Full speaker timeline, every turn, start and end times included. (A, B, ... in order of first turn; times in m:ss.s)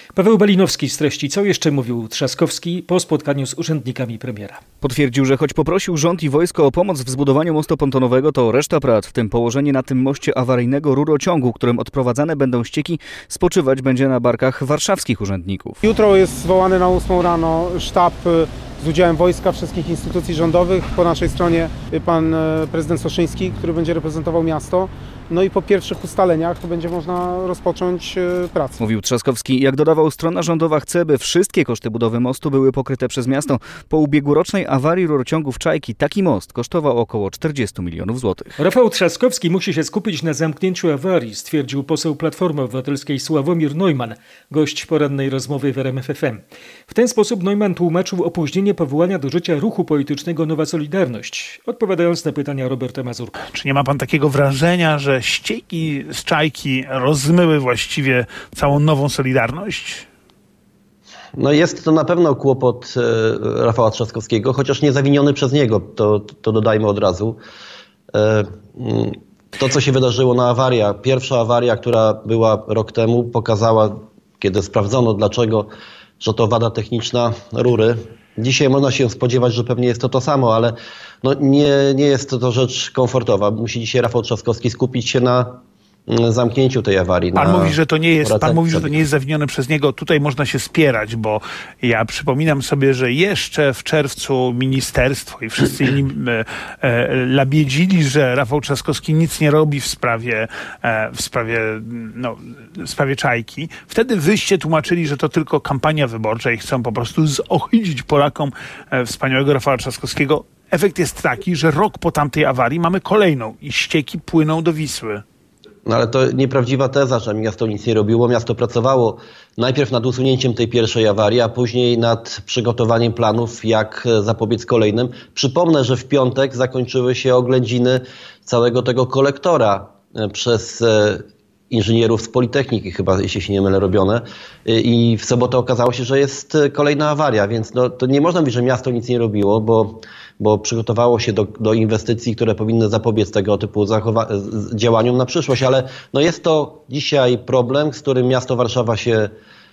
0:00.2-0:04.6 A
0:04.8-0:15.8 B
0:15.8-0:28.8 C
0:28.8-0:38.6 B
0:38.6-0:53.4 A
0:53.5-1:00.1 D
1:01.4-1:07.4 E
1:08.1-1:29.0 E
1:27.4-1:55.2 D
1:55.9-2:29.3 E